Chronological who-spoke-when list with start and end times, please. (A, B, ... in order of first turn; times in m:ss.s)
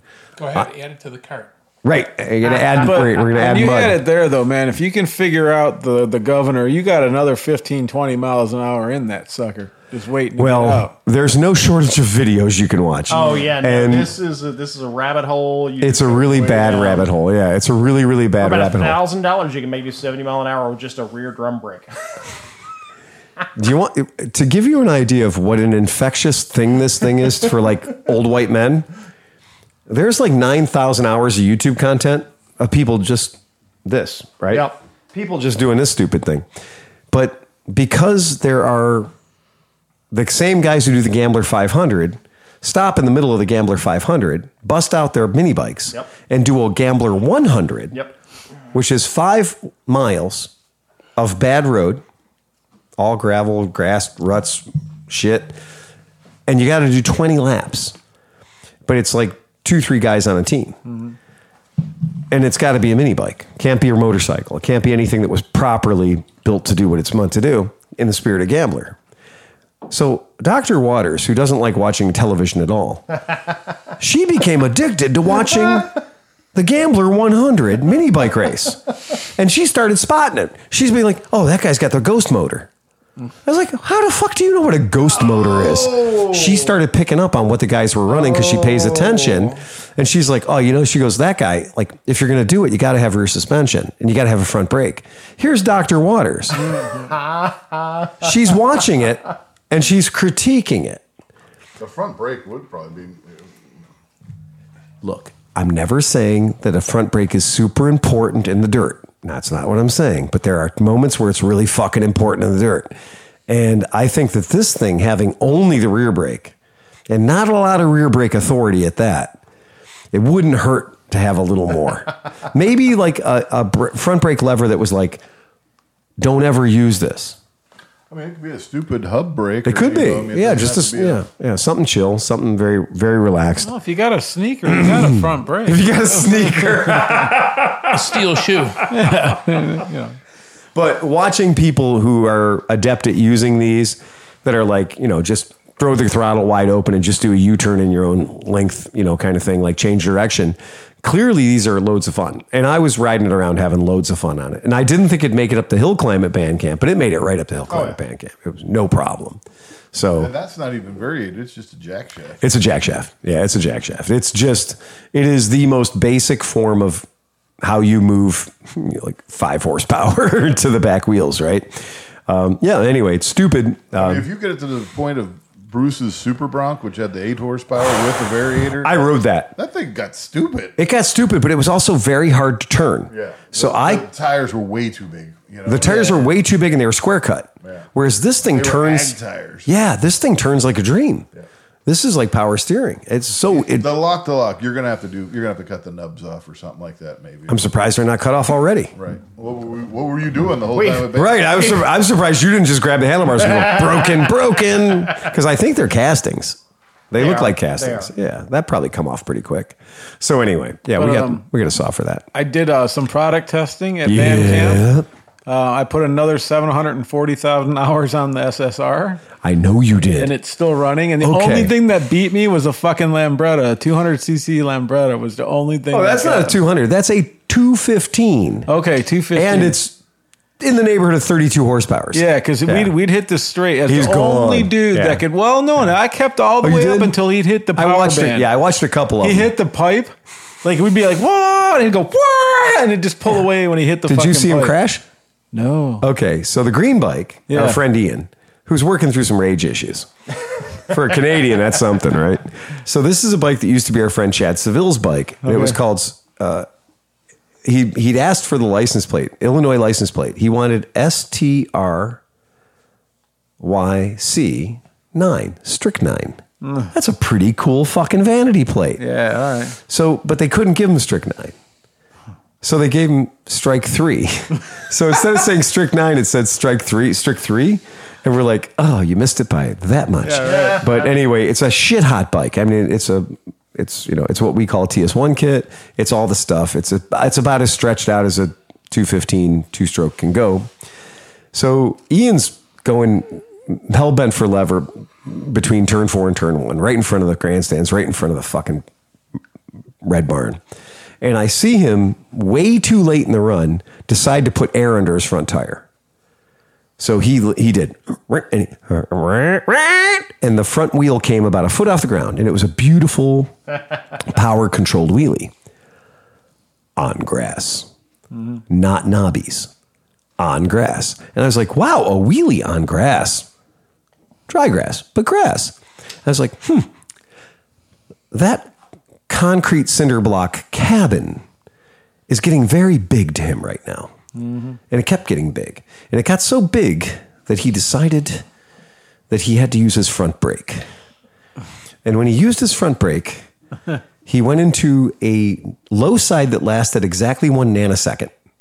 0:00.4-0:01.5 A
0:01.8-0:04.0 B
0:02.7-0:10.9 C
0:10.4-0:14.1 B
0:13.1-0:17.1 D
0:15.8-0:19.0 B
0:18.4-0:21.9 D
0:23.6-0:28.9 B
0:29.9-0:36.5 B
0:34.5-0:34.8 D
0:37.1-0:39.1 B
0:40.1-0:48.0 B
0:48.7-0:50.5 B
0:51.2-0:52.0 B
0:53.0-0:55.6 B
0:56.5-0:58.0 B
0:58.9-1:00.8 B
1:02.3-1:09.0 B
1:09.9-1:13.2 B
1:14.0-1:16.0 B
1:16.5-1:22.7 B
1:23.4-1:36.7 B
1:37.0-1:38.1 D
1:38.2-1:41.0 B
1:41.8-1:43.6 E
1:45.0-1:52.9 B
1:53.5-1:56.5 B
1:57.1-1:59.4 B
2:00.1-2:05.2 B
2:06.2-2:07.4 B
2:08.1-2:11.2 E
2:09.6-2:13.7 B
2:13.6-2:17.2 C
2:14.7-2:18.2 B
2:17.9-2:18.9 A
2:18.9-2:20.2 C
2:19.0-2:19.6 B
2:20.8-2:39.4 B
2:37.7-2:38.0 D
2:39.9-2:40.3 B
2:40.2-2:42.4 E
2:42.4-2:47.1 B
2:47.6-2:54.3 B
2:54.0-2:59.0 E
2:58.8-2:59.6 B
2:59.6-3:00.8 E
3:00.8-3:04.1 B
3:03.1-3:06.3 E
3:05.7-3:11.3 B
3:08.5-3:09.7 E
3:11.9-3:13.9 B
3:13.5-3:17.6 E
3:17.5-3:18.9 B
3:19.0-3:21.7 E
3:20.7-3:21.1 D
3:21.1-3:26.6 B
3:27.1-3:32.3 B
3:27.2-3:28.1 D
3:31.0-3:31.4 C
3:32.3-3:34.9 C
3:34.0-3:35.1 B
3:35.5-3:39.2 C
3:39.4-3:40.4 B
3:40.2-3:46.6 C
3:41.2-3:41.8 B
3:45.9-3:48.7 B
3:48.7-3:49.8 C
3:49.3-3:50.0 B
3:50.6-3:52.9 B
3:52.1-3:58.5 C
3:53.9-3:55.2 B
3:56.6-3:57.2 B
3:57.8-3:59.5 B
3:59.2-4:04.8 C
4:04.1-4:05.0 B
4:05.5-4:06.1 C
4:06.0-4:10.1 B
4:07.5-4:07.8 C
4:10.8-4:16.7 B
4:15.4-4:15.8 C
4:17.6-4:22.2 B
4:23.6-4:29.0 B
4:26.6-4:26.9 C
4:29.0-4:29.8 C
4:29.8-4:31.6 B
4:32.6-4:50.7 B
4:40.2-4:41.0 C
4:40.4-4:40.8 D
4:51.5-4:58.8 B
5:00.0-5:00.6 B
5:01.2-5:05.8 B
5:07.0-5:13.6 B
5:14.2-5:15.5 B
5:17.0-5:17.9 B
5:18.7-5:19.7 B
5:20.4-5:23.5 B
5:24.5-5:26.9 B
5:28.3-5:28.7 B
5:29.3-5:31.4 B
5:32.3-5:34.2 B
5:34.4-5:34.8 C
5:34.9-5:38.4 B
5:39.3-5:40.8 B
5:42.0-5:43.5 B
5:44.2-5:48.3 B